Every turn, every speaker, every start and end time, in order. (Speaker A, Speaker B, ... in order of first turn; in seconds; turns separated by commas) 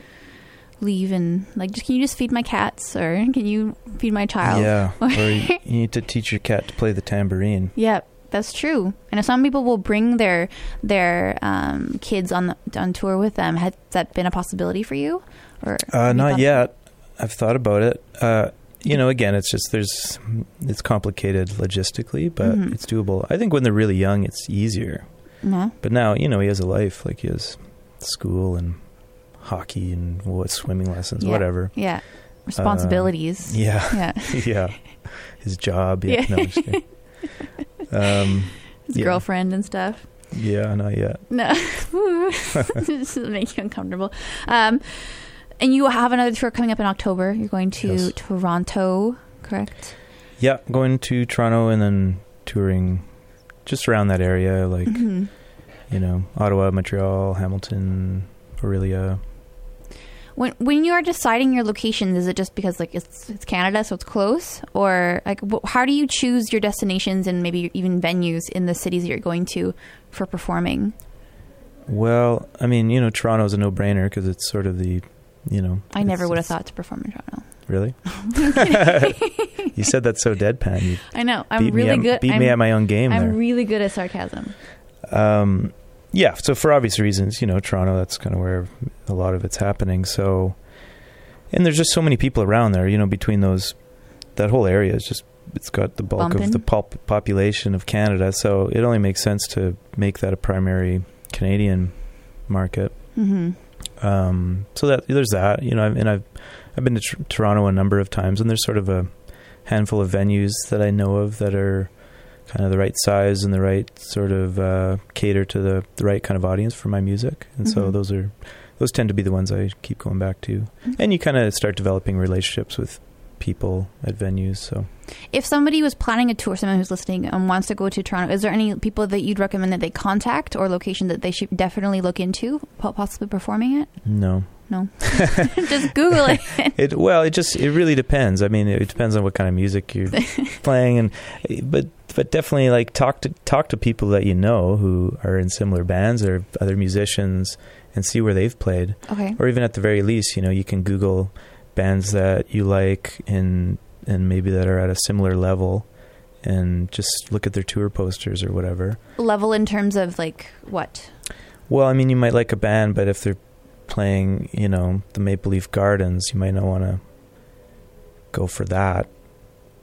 Speaker A: 0.8-5.6, Speaker B: 4.4-7.7, Speaker A: 7.8-16.7, Speaker B: 15.9-25.1, Speaker A: 22.4-22.7, Speaker A: 25.4-25.7, Speaker B: 25.8-37.3, Speaker A: 31.2-34.6, Speaker A: 36.0-37.3, Speaker B: 37.9-39.2, Speaker A: 38.9-40.3, Speaker B: 40.3-41.3, Speaker A: 41.3-49.9, Speaker B: 47.8-48.1, Speaker B: 50.4-53.1, Speaker B: 53.6-59.2, Speaker A: 54.9-55.3, Speaker A: 60.4-70.9, Speaker B: 71.9-76.5, Speaker A: 75.9-79.7, Speaker B: 77.7-79.1, Speaker B: 79.7-83.4, Speaker A: 81.1-84.5, Speaker B: 85.1-90.6, Speaker B: 91.5-93.8, Speaker B: 94.3-103.0, Speaker A: 96.2-96.6, Speaker A: 103.2-103.6, Speaker B: 104.0-124.9, Speaker A: 117.6-117.9, Speaker A: 125.3-136.7, Speaker B: 134.0-135.5, Speaker B: 136.7-155.9, Speaker A: 149.1-149.4, Speaker B: 156.4-159.0, Speaker A: 159.2-161.1, Speaker B: 161.7-167.0, Speaker B: 168.3-169.1